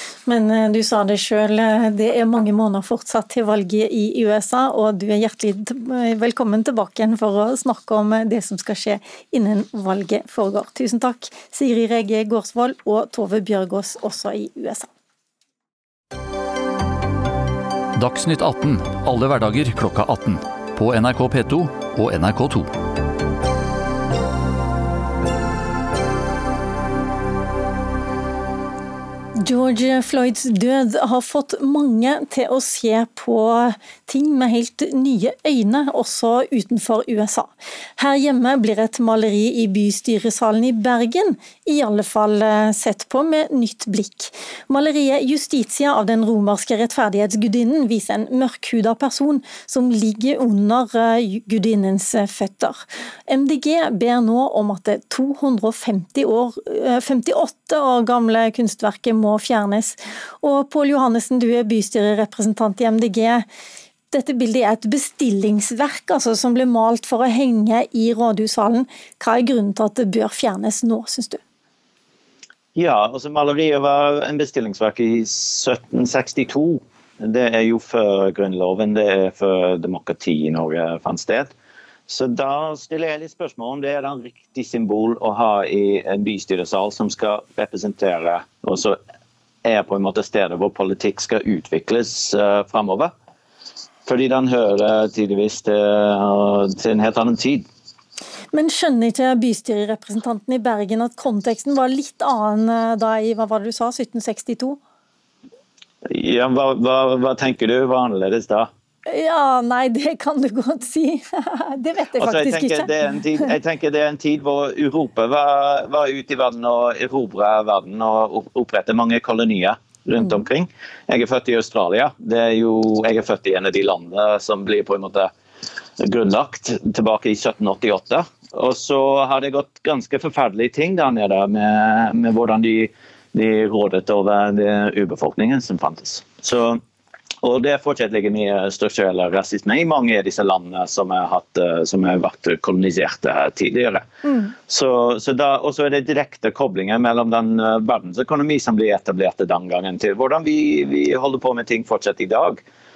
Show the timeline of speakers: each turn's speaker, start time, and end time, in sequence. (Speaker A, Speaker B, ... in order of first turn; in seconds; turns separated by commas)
Speaker A: 0.2-14.9, Speaker B: 17.9-22.7, Speaker A: 29.4-63.4, Speaker A: 64.1-71.4, Speaker C: 72.7-81.5, Speaker C: 82.1-89.0, Speaker C: 89.6-93.1, Speaker C: 94.0-97.7, Speaker A: 98.5-104.8, Speaker C: 106.0-108.7, Speaker A: 109.0-113.5, Speaker C: 112.2-125.3, Speaker C: 126.0-136.8, Speaker C: 137.4-144.1, Speaker A: 144.2-144.5, Speaker C: 144.7-152.6